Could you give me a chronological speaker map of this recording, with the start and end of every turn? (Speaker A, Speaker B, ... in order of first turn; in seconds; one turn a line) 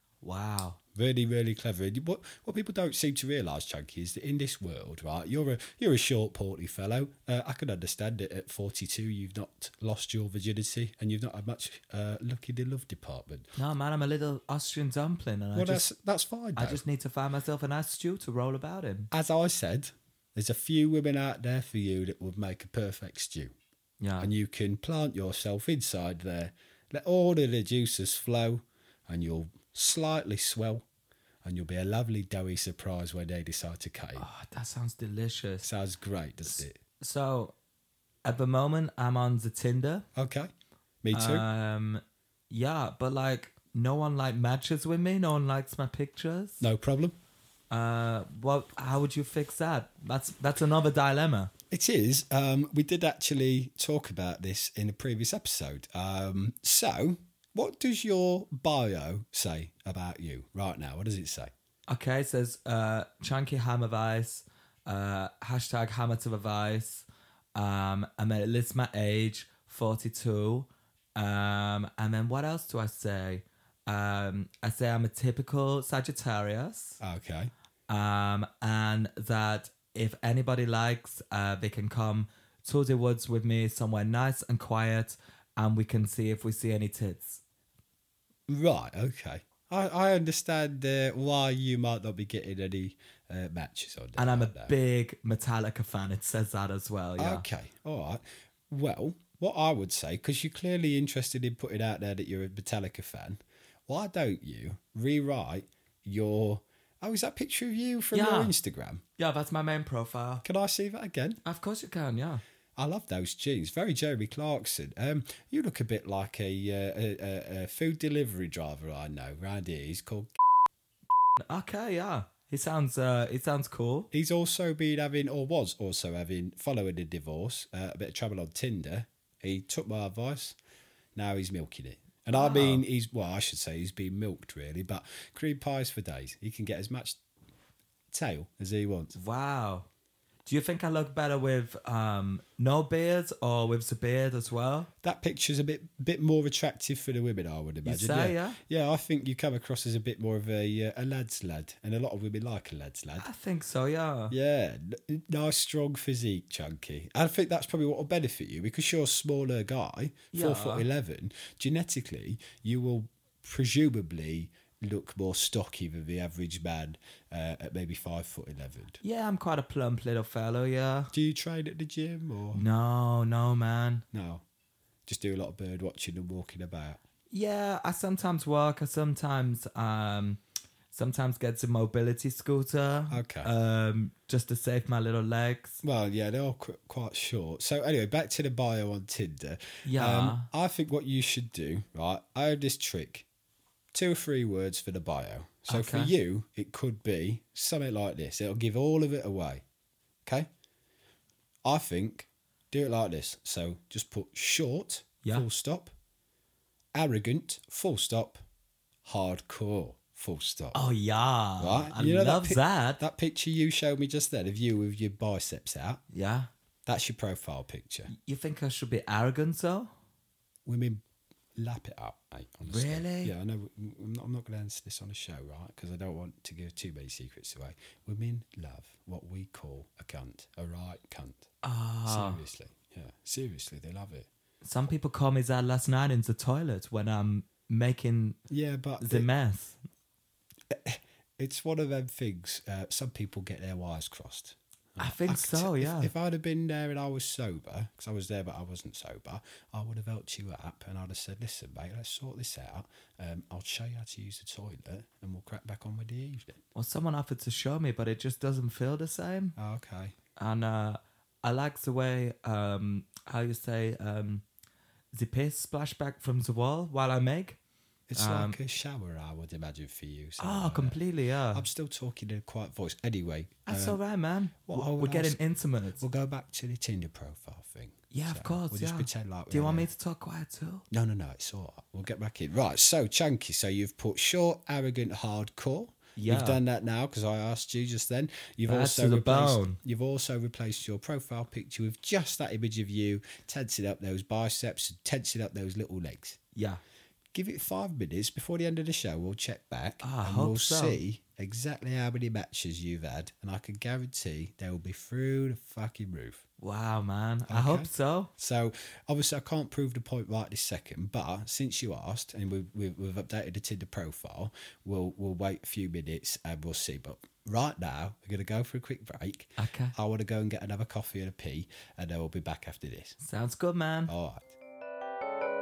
Speaker A: 0.2-0.8
Speaker B: 0.9-13.5
Speaker A: 13.6-15.9
Speaker B: 15.6-16.8
Speaker A: 16.6-19.1
Speaker B: 19.1-23.5
Speaker A: 24.0-24.3
Speaker B: 24.2-30.9
Speaker B: 31.4-34.3
Speaker A: 34.2-35.7
Speaker B: 35.6-36.8
Speaker A: 36.5-37.5
Speaker A: 38.2-40.0
Speaker B: 40.1-40.5
Speaker B: 41.0-41.5
Speaker A: 41.1-46.6
Speaker B: 46.6-47.2
Speaker A: 47.7-51.5
Speaker B: 51.7-61.5
Speaker A: 61.9-77.0
Speaker B: 77.0-77.5
Speaker A: 77.9-87.4
Speaker B: 88.5-94.7
Speaker A: 94.2-97.5
Speaker B: 97.2-109.0
Speaker A: 108.1-108.5
Speaker A: 109.2-110.4
Speaker B: 110.4-111.4
Speaker A: 111.5-112.4
Speaker B: 112.8-120.4
Speaker A: 121.5-124.1
Speaker B: 124.1-130.6
Speaker B: 131.2-137.2
Speaker A: 132.3-132.8
Speaker B: 138.1-139.1
Speaker A: 139.1-139.9
Speaker A: 140.5-144.9
Speaker B: 145.0-153.3
Speaker A: 147.8-148.6
Speaker A: 153.2-154.3
Speaker B: 154.3-169.0
Speaker A: 160.3-160.8
Speaker A: 169.0-171.1
Speaker B: 171.1-172.6
Speaker A: 172.5-174.0
Speaker B: 174.1-174.4
Speaker B: 175.1-177.0
Speaker A: 177.3-180.4
Speaker A: 180.9-185.8
Speaker B: 183.1-183.5
Speaker B: 185.8-193.3
Speaker A: 189.8-190.5
Speaker B: 193.9-199.6
Speaker A: 195.7-196.1
Speaker B: 201.6-205.9
Speaker B: 206.9-208.4
Speaker B: 209.1-210.8
Speaker A: 210.7-213.0
Speaker B: 211.6-216.0
Speaker A: 216.1-216.5
Speaker B: 216.9-218.1
Speaker A: 218.1-219.9
Speaker B: 220.7-221.0
Speaker B: 221.6-231.5
Speaker A: 222.7-223.3
Speaker A: 231.6-232.4
Speaker B: 232.1-234.3
Speaker A: 234.6-238.4
Speaker B: 238.5-239.3
Speaker A: 239.0-239.8
Speaker B: 240.7-256.6
Speaker A: 245.0-246.1
Speaker A: 256.8-259.6
Speaker B: 259.6-260.1
Speaker A: 260.4-264.4
Speaker A: 265.1-267.6
Speaker B: 268.1-271.0
Speaker A: 268.2-268.6
Speaker A: 270.4-271.7
Speaker B: 271.5-274.0
Speaker A: 273.7-276.0
Speaker B: 274.7-275.4
Speaker B: 276.0-279.9
Speaker A: 278.1-280.9
Speaker B: 280.9-296.4
Speaker A: 286.2-286.6
Speaker A: 288.7-289.8
Speaker A: 296.6-296.8
Speaker B: 297.3-306.4
Speaker A: 300.0-301.0
Speaker A: 306.6-308.3
Speaker B: 307.5-323.2
Speaker A: 319.6-319.9
Speaker A: 323.2-324.1
Speaker B: 324.1-324.5